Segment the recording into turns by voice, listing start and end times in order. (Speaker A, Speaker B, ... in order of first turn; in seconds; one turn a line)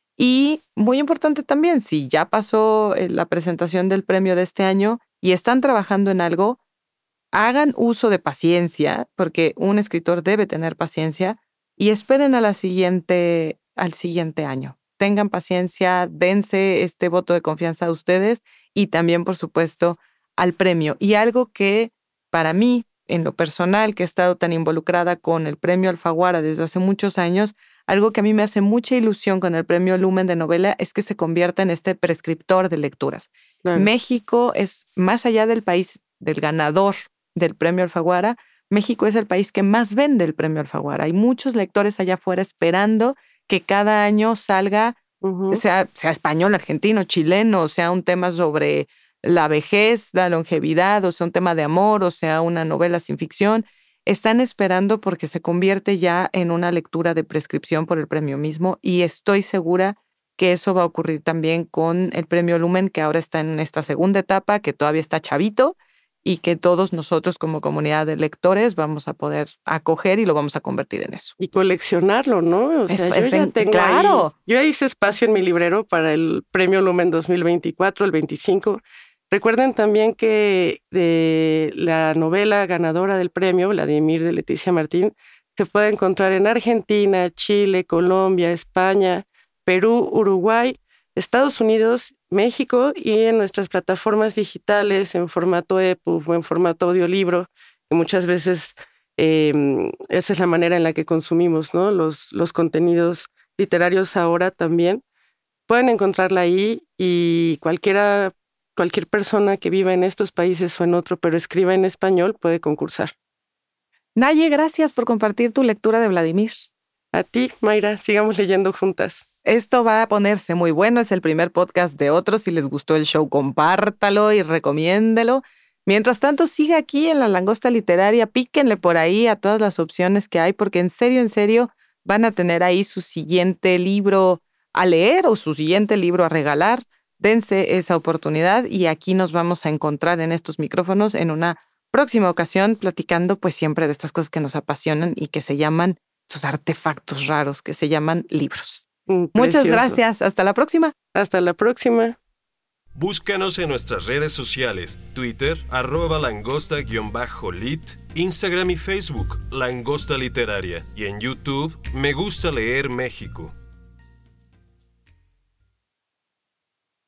Speaker A: 0.2-6.6
Speaker A: 7.3-45.0
Speaker B: 33.6-33.9
Speaker B: 45.2-45.6
Speaker A: 45.5-71.3
Speaker B: 71.4-105.0
Speaker A: 72.9-74.3
Speaker B: 105.7-113.1
Speaker A: 114.2-116.7
Speaker B: 117.1-119.2
Speaker A: 119.5-150.9
Speaker B: 149.1-150.0
Speaker B: 151.1-152.2
Speaker C: 153.0-163.5